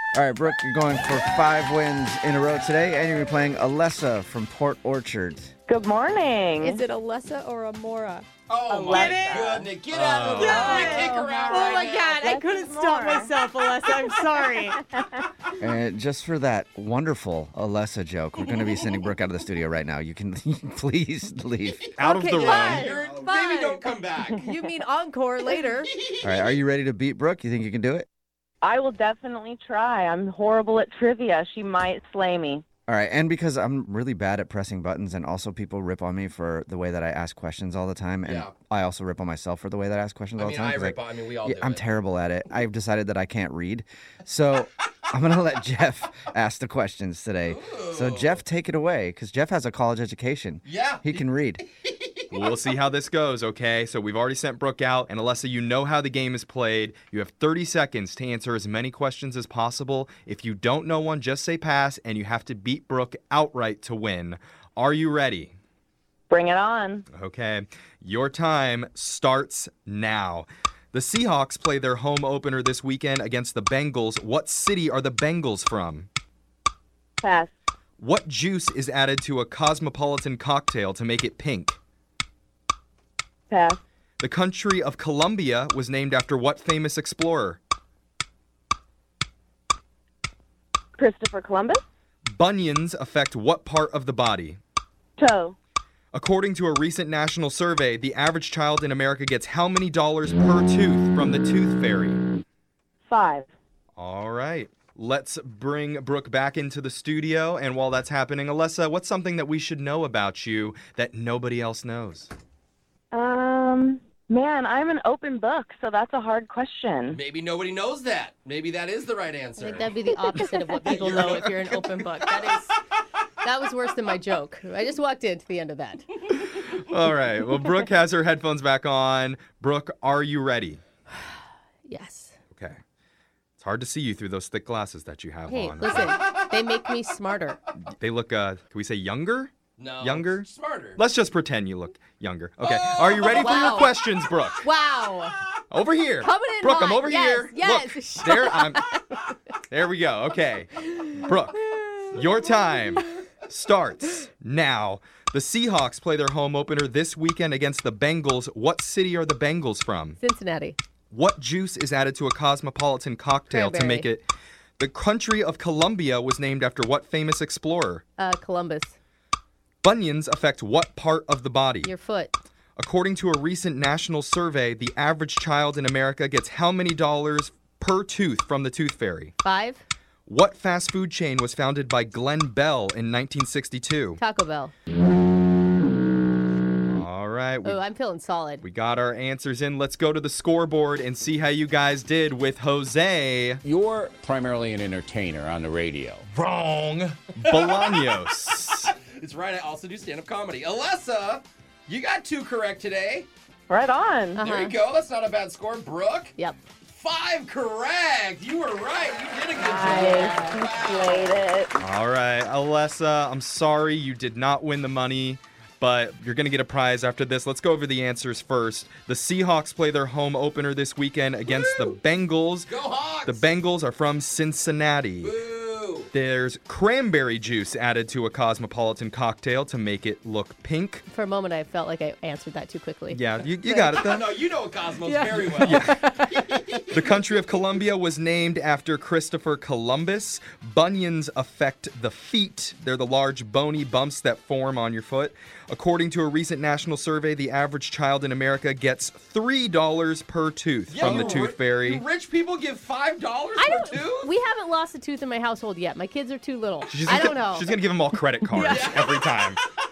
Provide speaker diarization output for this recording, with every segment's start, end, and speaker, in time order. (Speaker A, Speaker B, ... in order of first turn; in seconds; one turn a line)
Speaker A: 0.1-5.5
Speaker B: 5.7-6.8
Speaker C: 6.6-8.3
Speaker D: 8.5-12.2
Speaker B: 8.7-9.7
Speaker C: 8.9-9.4
Speaker E: 9.9-10.7
Speaker C: 10.3-14.8
Speaker B: 10.4-14.2
Speaker A: 15.6-21.9
Speaker E: 22.0-22.9
Speaker C: 22.0-23.8
Speaker D: 22.2-24.5
Speaker C: 24.4-25.9
Speaker A: 26.2-28.1
Speaker B: 28.6-32.6
Speaker A: 32.9-51.6
Speaker D: 38.2-38.5
Speaker D: 40.4-41.8
Speaker D: 47.5-48.4
Speaker D: 50.6-51.2
Speaker D: 51.8-52.2
Speaker E: 52.3-65.5
Speaker B: 66.3-67.0
Speaker E: 67.1-76.1
Speaker B: 77.2-77.5
Speaker E: 78.0-81.8
Speaker B: 83.5-83.8
Speaker E: 84.2-87.6
Speaker B: 91.0-91.8
Speaker E: 92.3-94.6
Speaker B: 95.2-95.5
Speaker E: 96.1-102.2
Speaker B: 103.1-103.5
Speaker E: 104.0-112.3
Speaker B: 113.1-117.2
Speaker D: 117.1-119.9
Speaker C: 119.6-122.8
Speaker D: 120.8-121.6
Speaker C: 123.4-126.1
Speaker E: 126.3-130.8
Speaker C: 131.8-132.3
Speaker E: 132.5-132.8
Speaker E: 133.6-136.1
Speaker C: 135.5-137.6
Speaker E: 138.0-144.7
Speaker D: 139.8-141.0
Speaker D: 142.6-143.8
Speaker C: 143.3-143.9
Speaker C: 144.6-145.4
Speaker E: 145.7-148.8
Speaker C: 146.2-149.2
Speaker E: 149.7-160.2
Speaker C: 160.2-160.8
Speaker E: 161.1-164.2
Speaker C: 163.5-164.1
Speaker E: 164.8-168.0
Speaker C: 168.2-168.9
Speaker E: 169.8-171.9
Speaker C: 171.8-172.3
Speaker E: 172.8-179.3
Speaker C: 179.4-179.8
Speaker E: 180.3-184.2
Speaker C: 184.2-184.7
Speaker E: 186.9-187.8
Speaker C: 187.6-188.6
Speaker E: 188.6-193.6
Speaker F: 193.6-196.2
Speaker E: 196.3-198.9
Speaker D: 197.4-198.2
Speaker D: 198.7-203.3
Speaker B: 203.7-204.4
Speaker C: 204.3-204.8
Speaker D: 204.4-206.3
Speaker D: 206.8-211.4
Speaker C: 209.6-210.6
Speaker B: 209.7-211.8
Speaker E: 211.8-225.4
Speaker D: 222.7-223.5
Speaker D: 225.2-226.1
Speaker E: 226.1-231.0
Speaker C: 231.1-234.0
Speaker E: 233.1-234.3
Speaker D: 234.0-237.1
Speaker C: 235.1-236.5
Speaker E: 235.6-235.9
Speaker E: 236.9-252.0
Speaker D: 250.9-254.3
Speaker C: 253.6-257.7
Speaker E: 256.9-259.6
Speaker C: 258.5-259.1
Speaker D: 258.6-259.5